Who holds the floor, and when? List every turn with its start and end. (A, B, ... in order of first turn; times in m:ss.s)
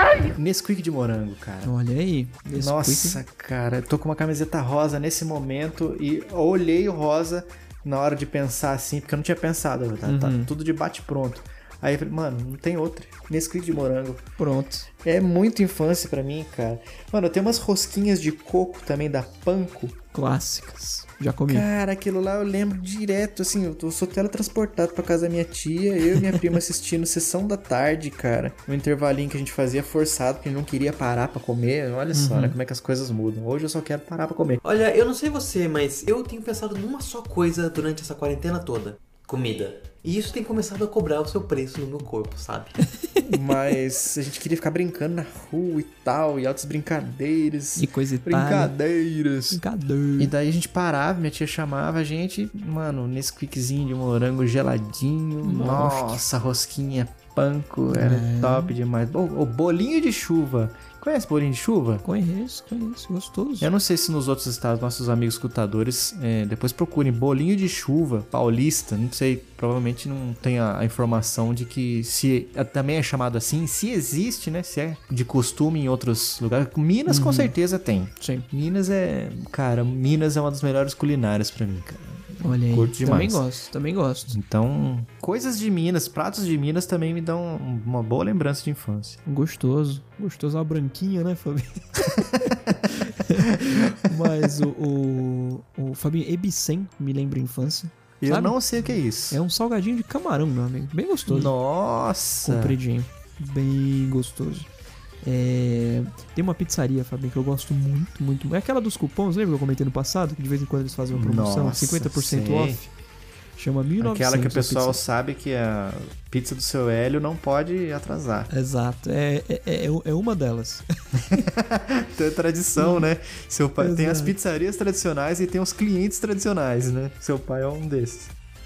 0:00.4-0:01.7 A
0:01.6-0:03.2 B
0:02.5-0:14.3 A
0:10.0-0:10.5 B
0:14.4-0:14.9 B
0:15.0-0:20.0 A
0:20.1-0:21.7 B
0:21.5-0:34.6 A
0:32.1-0:32.6 B
0:34.6-0:42.8 C
0:43.2-0:49.6 A
0:47.8-0:48.7 B
0:49.5-0:50.3 B
0:50.2-1:02.0 A
0:55.4-0:56.2 B
0:57.9-0:58.8 B
1:02.0-1:03.7 B
1:03.6-1:23.4 A
1:17.1-1:17.5 B
1:18.2-1:18.5 B
1:22.4-1:24.4 B
1:24.3-1:29.2 A
1:29.3-1:38.6 B
1:32.4-1:32.8 A
1:33.6-1:34.5 A
1:38.2-1:39.4 A
1:39.3-1:41.5 B
1:41.3-1:42.8 A
1:42.4-1:44.7 B
1:45.2-1:52.9 B
1:51.1-1:52.8 A
1:53.6-1:55.0 B
1:54.0-1:58.5 A
1:58.5-2:01.4 B
2:01.3-2:08.3 A
2:02.8-2:03.1 B
2:03.8-2:04.4 B